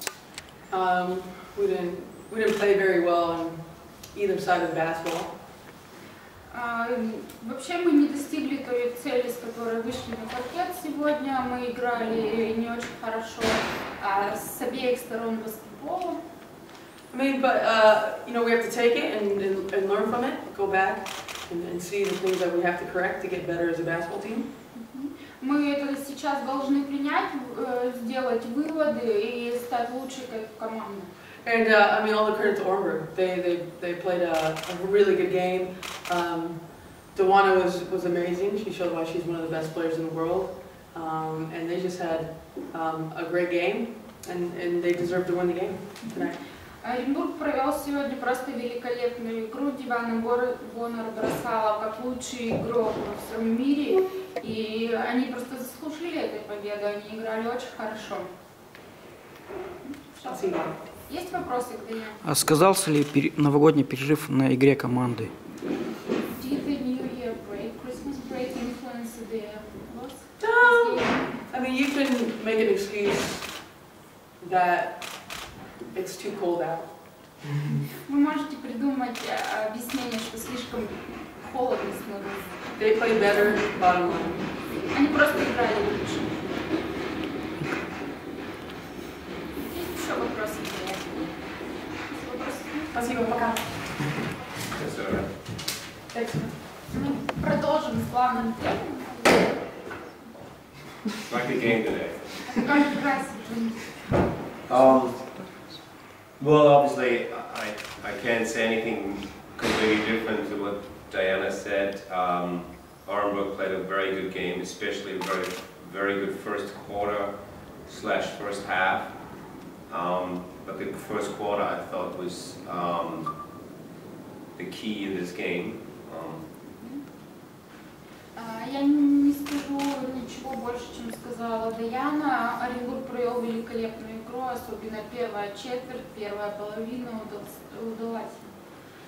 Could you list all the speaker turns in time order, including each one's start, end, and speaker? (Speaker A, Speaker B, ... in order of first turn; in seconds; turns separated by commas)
Speaker A: 0.7-5.4, Speaker B: 6.5-16.2, Speaker A: 17.1-24.5, Speaker B: 24.7-31.1, Speaker A: 31.4-46.4, Speaker B: 46.8-58.3, Speaker B: 59.8-62.2, Speaker A: 60.2-60.7, Speaker C: 62.2-65.3, Speaker B: 66.3-71.4, Speaker A: 70.4-73.7, Speaker A: 74.4-77.4, Speaker B: 77.6-83.5, Speaker A: 82.8-84.5, Speaker B: 84.8-86.6, Speaker B: 89.5-91.3, Speaker B: 92.0-93.0, Speaker A: 92.9-93.9, Speaker D: 94.7-95.3, Speaker A: 96.1-96.6, Speaker B: 96.9-99.7, Speaker D: 101.2-102.5, Speaker B: 102.5-104.2, Speaker D: 104.7-105.5, Speaker D: 106.4-117.3, Speaker D: 117.8-119.1, Speaker D: 119.9-123.3, Speaker D: 124.5-126.5, Speaker B: 128.3-138.6